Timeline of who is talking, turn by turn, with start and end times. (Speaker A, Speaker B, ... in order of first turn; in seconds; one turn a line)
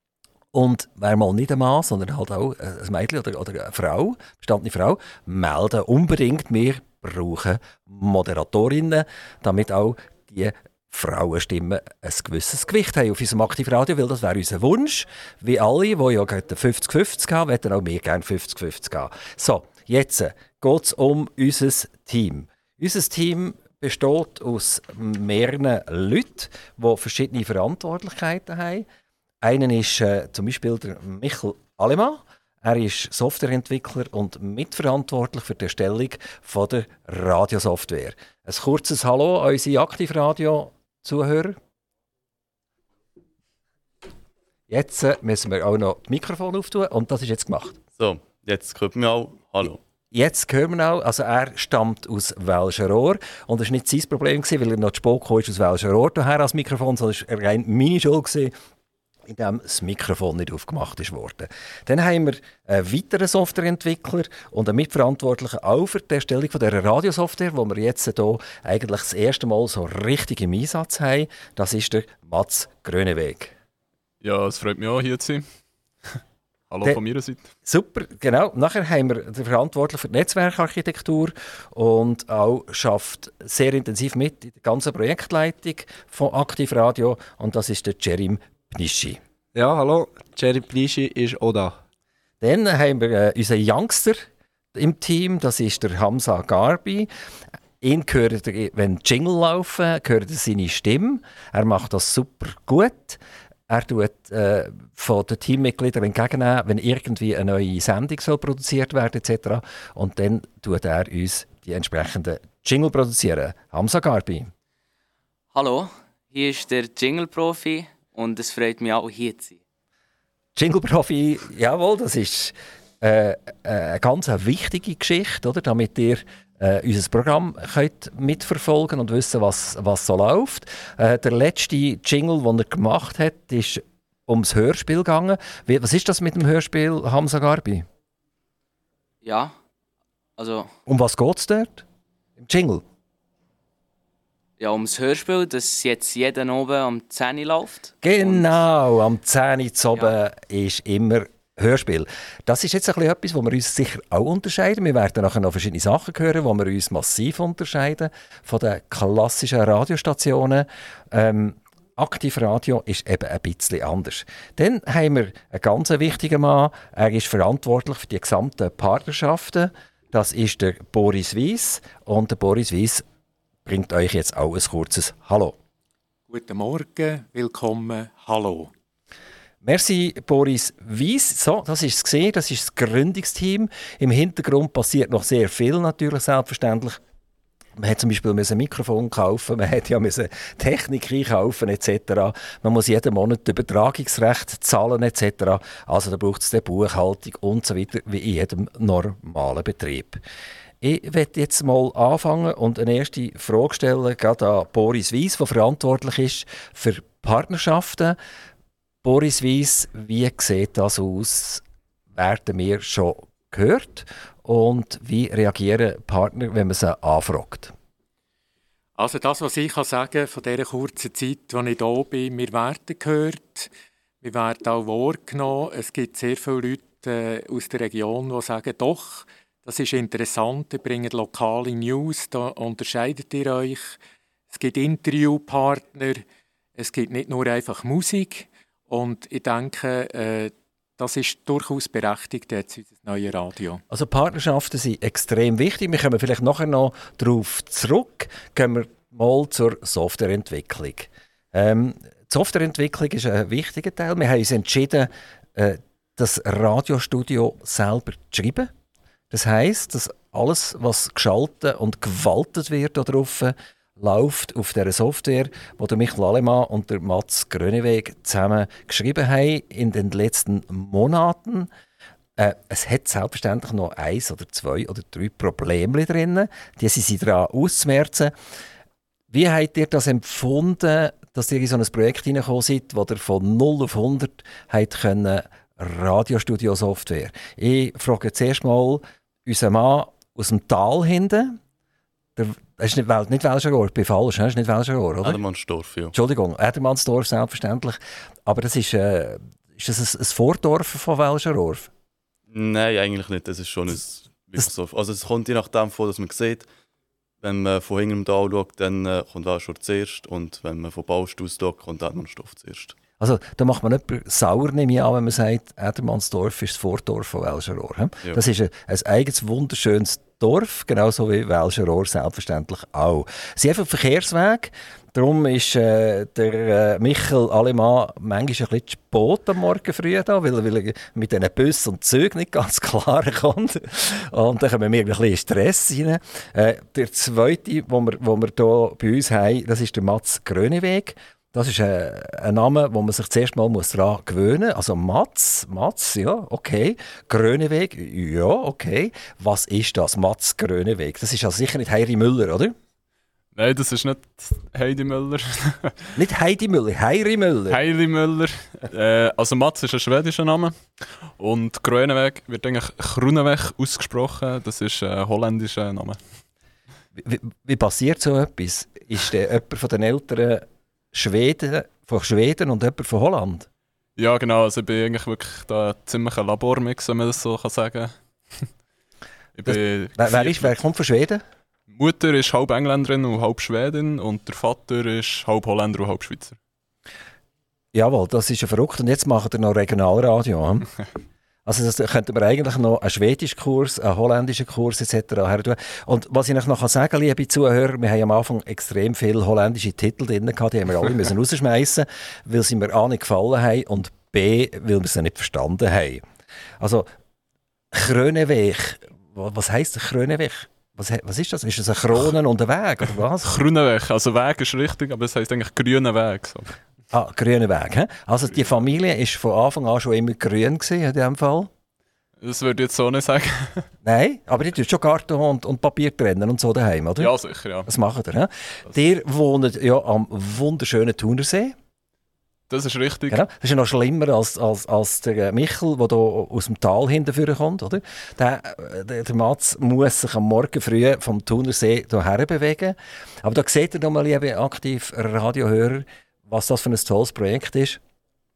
Speaker A: 0.5-28.9
Speaker A: 29.4-41.6
Speaker A: 44.7-47.8
Speaker B: 48.0-49.8
Speaker A: 50.1-58.5
Speaker A: 59.3-73.5
Speaker C: 74.2-75.4
Speaker C: 76.7-77.4
Speaker A: 77.6-89.2
Speaker D: 89.5-91.8
Speaker A: 92.4-97.1
Speaker A: 97.8-114.5
Speaker E: 115.5-119.6
Speaker A: 120.5-137.8
Speaker E: 139.2-139.5
Speaker E: 140.4-140.7
Speaker A: 140.9-141.8
Speaker A: 142.4-142.8
Speaker E: 144.6-148.5
Speaker A: 148.0-173.0
Speaker A: 173.6-175.6
Speaker F: 176.3-178.7
Speaker A: 179.6-187.0
Speaker A: 187.8-200.2
Speaker A: 200.8-208.2
Speaker A: 209.0-211.6
Speaker A: 212.1-217.7
Speaker F: 219.0-223.7
Speaker F: 224.2-234.0
Speaker F: 234.5-236.2
Speaker F: 236.8-243.8
Speaker A: 243.9-258.7
Speaker A: 259.3-271.7
Speaker A: 272.4-278.3
Speaker A: 279.3-291.6
Speaker A: 292.4-295.4
Speaker B: 295.2-296.1
Speaker A: 296.1-301.9
Speaker B: 302.5-306.7
Speaker B: 307.4-313.0
Speaker A: 313.2-352.7
Speaker C: 353.5-356.1
Speaker A: 356.1-357.8
Speaker C: 357.7-360.7
Speaker C: 361.4-366.2
Speaker A: 367.2-373.7
Speaker C: 374.2-378.7
Speaker C: 379.5-380.7
Speaker A: 379.6-381.4
Speaker C: 381.9-386.6
Speaker A: 387.9-390.9
Speaker A: 391.6-406.2
Speaker A: 406.8-407.1
Speaker A: 407.9-413.5
Speaker C: 413.4-416.7
Speaker A: 417.1-421.7
Speaker C: 422.4-423.8
Speaker A: 424.0-427.3
Speaker C: 427.2-427.9
Speaker A: 427.9-431.7
Speaker C: 432.7-433.4
Speaker A: 433.3-448.0